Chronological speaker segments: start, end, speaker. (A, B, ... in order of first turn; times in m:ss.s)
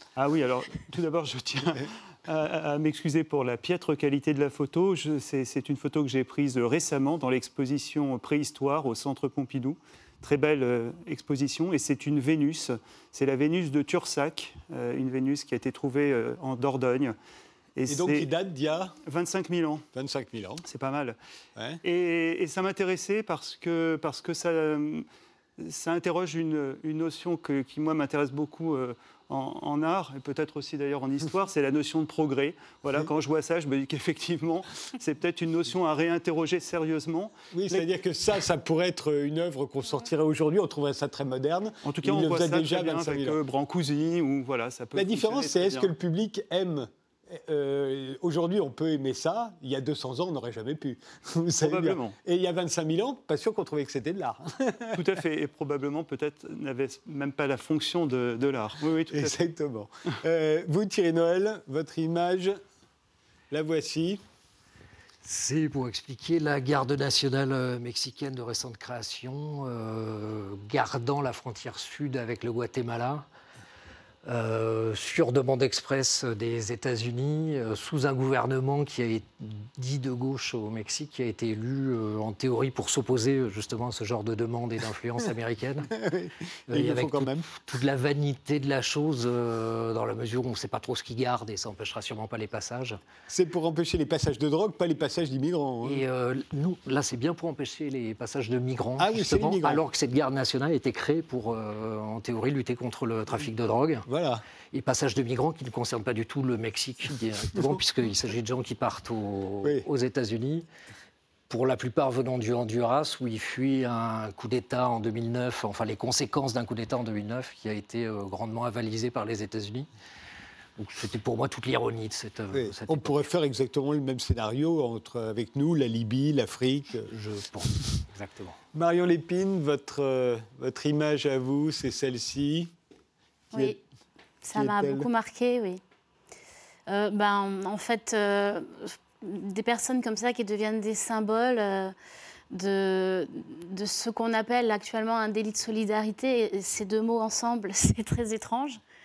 0:00.2-0:17.2 A
0:17.7-0:18.3 A
0:17.9-0:19.0 B
0:19.0-0:19.8 A
0:19.9-0:20.6 B
0:20.7-0:21.2 A
0:21.8-0:25.0 A
0:25.6-0:37.8 A
0:37.5-0:43.4 B
0:41.8-0:45.9 A
0:44.9-0:55.0 B
0:51.6-0:52.1 A
0:54.9-0:59.4 A
0:59.1-1:02.6 B
1:03.5-1:04.2 B
1:05.2-1:13.2 C
1:14.2-1:25.9 C
1:25.9-1:27.6 B
1:26.7-1:33.0 C
1:33.3-1:36.0 B
1:35.8-1:44.1 C
1:39.0-1:39.8 B
1:44.0-1:44.4 B
1:44.7-1:50.6 C
1:51.5-1:59.9 C
2:00.8-2:03.3 C
2:02.5-2:07.1 B
2:07.1-2:08.6 C
2:08.7-2:12.7 B
2:13.5-2:13.8 D
2:14.4-2:15.8 D
2:14.5-2:15.1 B
2:16.9-2:21.9 D
2:22.5-2:28.8 D